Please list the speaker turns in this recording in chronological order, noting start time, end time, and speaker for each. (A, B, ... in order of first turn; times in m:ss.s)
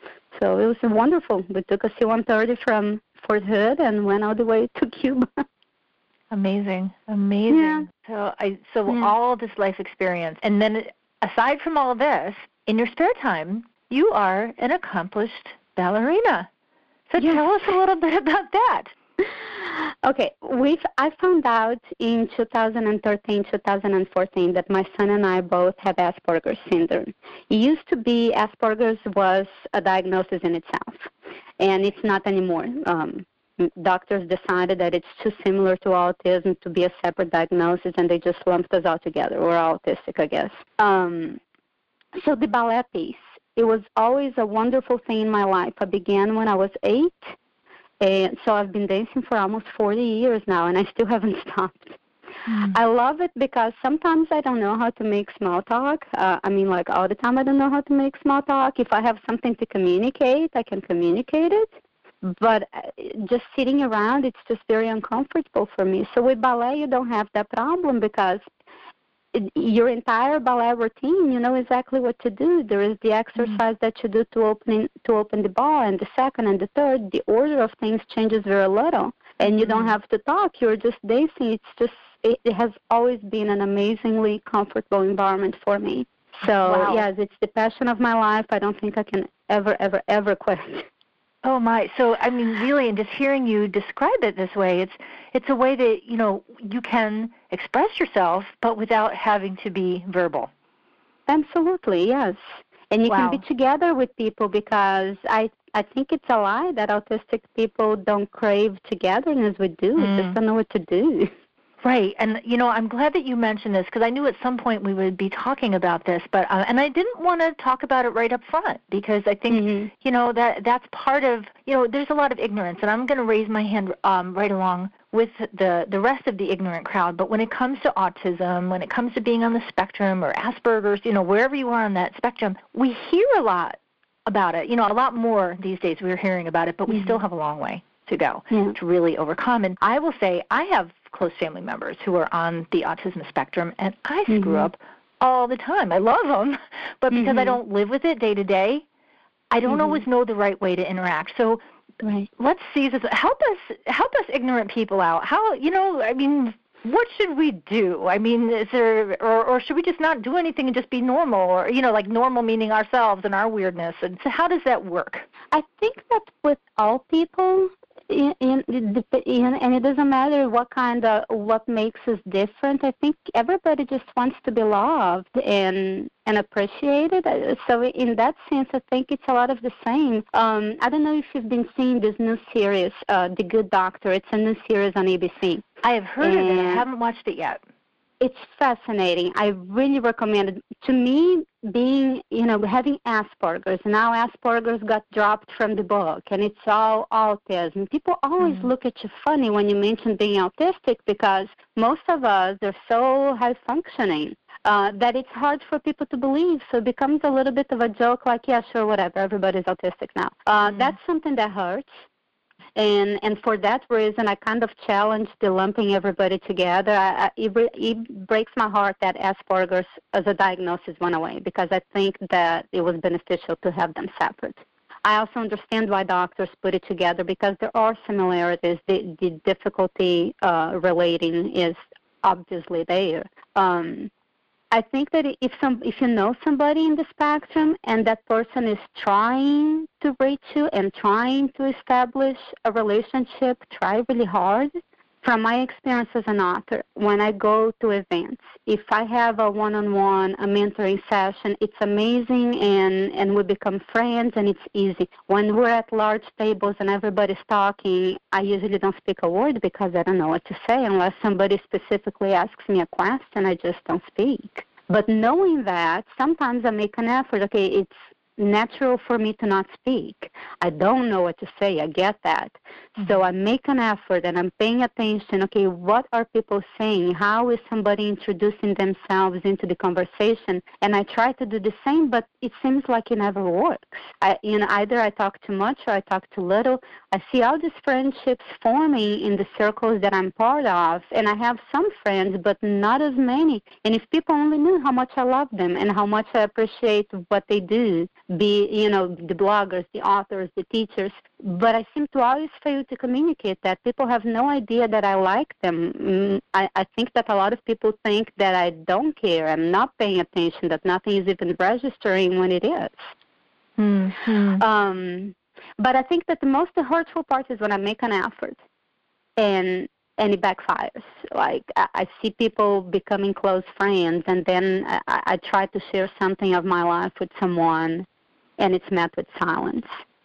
0:00.3-0:05.4 A
0:06.3-0:16.5 B
0:07.5-0:07.9 A
0:17.1-0:18.9 B
0:17.2-0:17.6 A
0:19.2-0:41.4 A
0:42.2-0:47.4 A
0:48.0-0:52.0 A
0:52.5-0:52.8 B
0:52.7-1:01.7 A
1:02.2-1:08.4 A
1:09.3-1:30.9 A
1:19.5-1:19.9 B
1:26.6-1:27.0 B
1:31.4-1:40.5 B
1:41.3-1:51.3 A
1:43.1-1:43.4 B
1:50.0-1:50.4 B
1:51.8-2:28.9 B
1:59.5-1:59.9 A
2:24.3-2:24.7 A
2:27.1-2:27.6 A
2:29.5-2:31.6 B
2:29.7-2:30.0 A
2:32.0-2:32.3 A
2:32.4-2:45.3 B
2:45.5-3:05.6 A
3:05.8-3:07.6 B
3:06.2-3:06.8 A
3:08.2-3:32.0 A
3:32.8-3:54.1 A
3:54.7-4:04.7 A
4:05.2-5:13.1 A
5:13.8-5:14.6 B
5:14.6-5:18.6 A
5:19.4-5:28.1 A
5:28.6-5:30.0 A